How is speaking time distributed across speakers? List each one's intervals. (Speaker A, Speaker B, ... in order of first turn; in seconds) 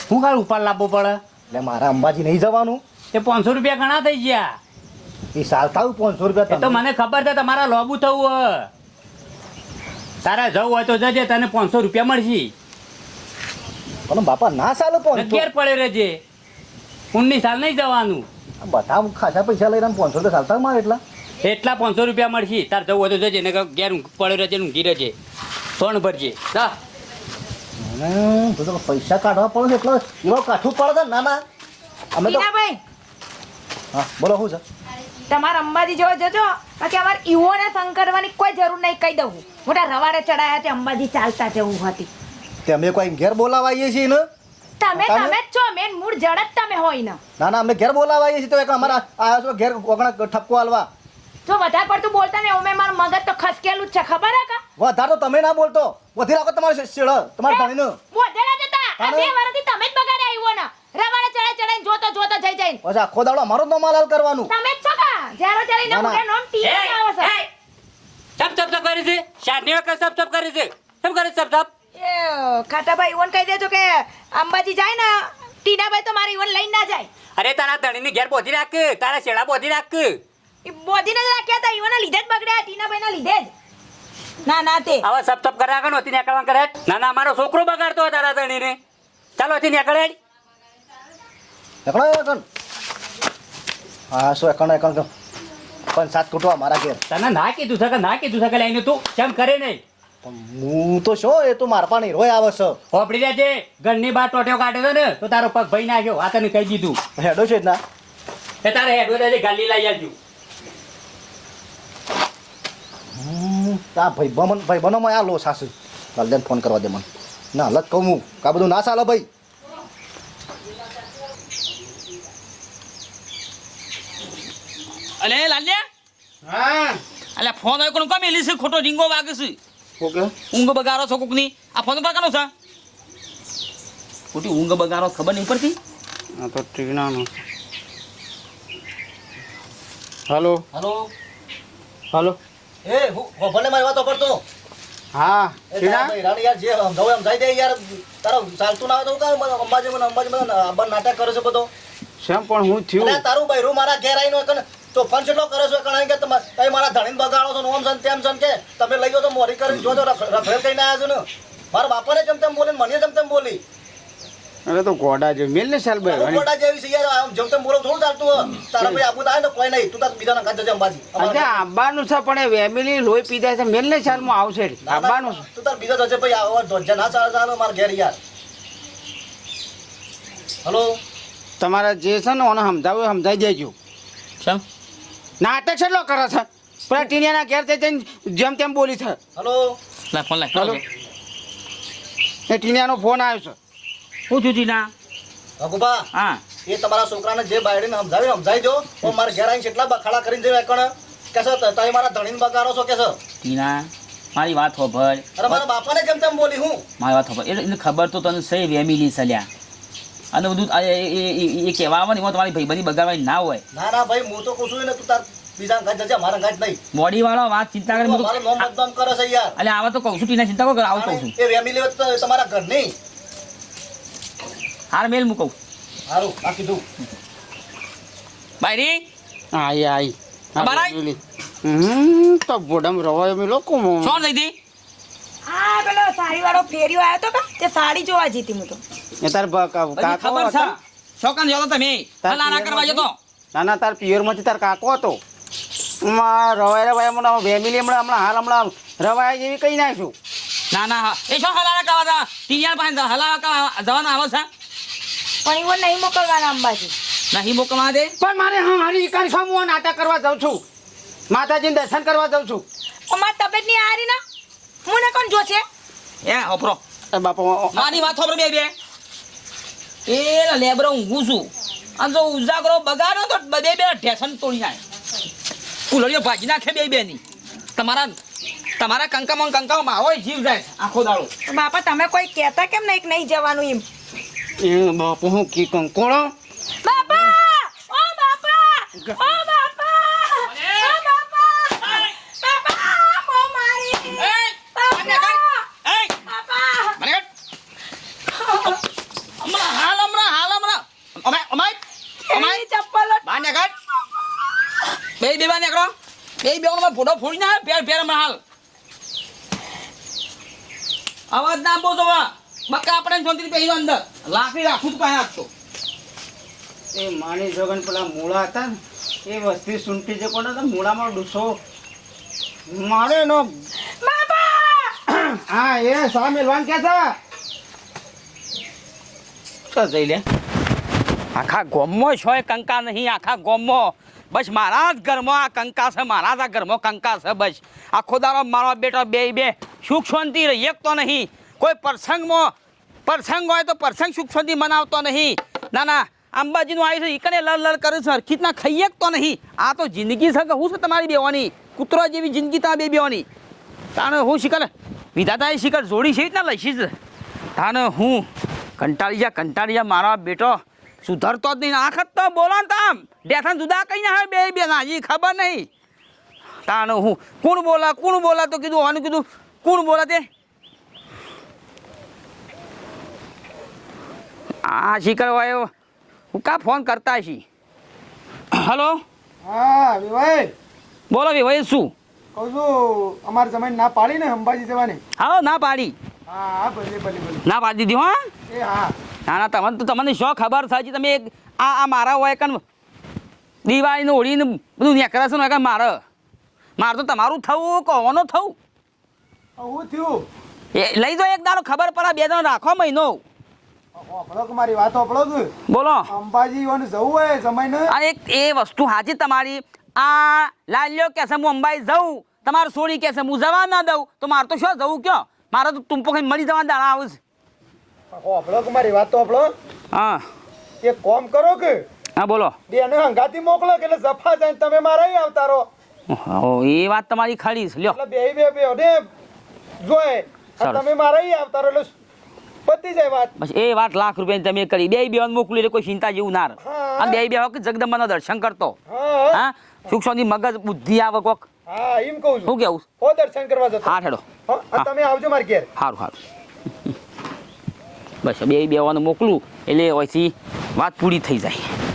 Speaker A: 0.1-1.2, 3.1-4.6, 6.5-8.7, 10.2-12.5, 15.2-16.2, 17.1-18.3, 21.4-25.1, 25.8-26.8, 66.6-67.5, 68.4-71.7, 77.4-80.2, 85.0-88.8, 89.4-90.2, 97.1-99.8, 102.9-107.0, 108.6-110.2
Speaker B: 1.5-2.8, 5.3-6.8, 14.1-15.5, 18.6-21.0, 27.8-31.4, 32.1-32.5, 33.9-34.6, 42.6-44.2, 45.0-45.4, 47.4-50.9, 54.8-58.0, 59.0-59.3, 62.8-64.5, 65.9-66.2, 91.8-92.4, 94.1-95.1, 95.9-97.0, 100.2-102.8, 107.2-107.8, 113.2-119.3, 140.7-141.1, 142.8-144.4, 145.7-151.7, 153.0-163.6, 166.1-171.6, 174.8-178.2, 180.6-181.0, 189.4-189.8, 195.6-196.1, 196.7-203.2, 205.4-206.8, 213.7-216.8, 217.9-219.6, 220.9-222.9, 226.1-226.8
Speaker C: 32.2-32.8, 35.3-42.1, 44.8-47.2, 51.5-54.6, 57.5-62.8, 64.5-67.3, 72.0-77.1, 80.6-83.5, 84.5-85.1, 235.5-238.8, 255.4-256.9, 263.1-264.2, 264.9-265.6, 281.5-283.8, 286.8-295.6, 296.3-297.0, 298.3-298.8, 302.2-303.5, 324.0-324.9
Speaker D: 125.2-125.8, 127.4-129.6, 130.5-132.5, 134.3-135.8, 190.1-190.8, 194.3-194.9, 196.1-196.4, 203.4-205.6, 207.0-209.5, 210.3-213.6, 216.9-218.7, 219.6-221.4, 224.9-225.5, 228.6-229.1, 230.6-231.0, 234.0-234.5, 240.0-243.1, 250.7-254.5, 257.3-258.1, 266.2-266.8, 267.7-268.7, 270.1-274.8, 275.9-277.2, 277.8-278.2, 278.8-281.3, 290.5-290.9, 294.2-296.2, 297.0-297.3, 299.4-301.8, 302.3-302.6, 303.2-303.7, 305.2-308.4, 311.3-315.5, 331.4-342.5, 343.1-353.2, 353.9-356.9, 357.6-358.3, 358.8-365.7, 366.7-370.3, 374.6-375.7, 376.3-377.4, 378.5-379.0, 381.1-381.9, 385.2-385.9, 387.4-388.2, 389.3-392.6, 393.6-396.0, 396.8-398.6, 400.7-403.2, 405.7-406.1, 407.9-417.2, 419.9-420.2, 422.2-422.6, 426.1-428.0, 430.6-430.9, 433.4-438.8, 439.3-441.4, 442.4-442.9, 443.8-444.9, 445.8-446.2, 448.2-451.7
Speaker E: 126.4-127.0, 130.0-130.3, 136.4-137.4, 140.3-140.6, 142.1-142.4, 145.1-146.1, 152.2-153.2, 164.7-166.5, 168.8-169.0, 171.2-175.4, 181.6-183.7, 185.4-189.2, 190.5-190.8, 192.5-193.6, 229.5-234.2, 239.2-240.7, 242.2-245.2, 246.1-250.1, 258.2-260.6, 261.3-262.6, 267.1-268.1, 284.6-286.3, 289.0-289.3, 316.9-321.5, 322.7-323.5, 325.1-327.1, 329.7-330.2
Speaker F: 379.4-380.5, 382.4-385.0, 386.3-387.4, 388.5-389.0, 399.6-400.3, 403.9-405.5, 406.1-407.9, 418.1-419.5, 420.8-421.9, 422.7-425.7, 427.9-429.1, 429.8-431.9, 432.7-433.3, 436.6-437.2, 438.9-439.5, 441.7-445.7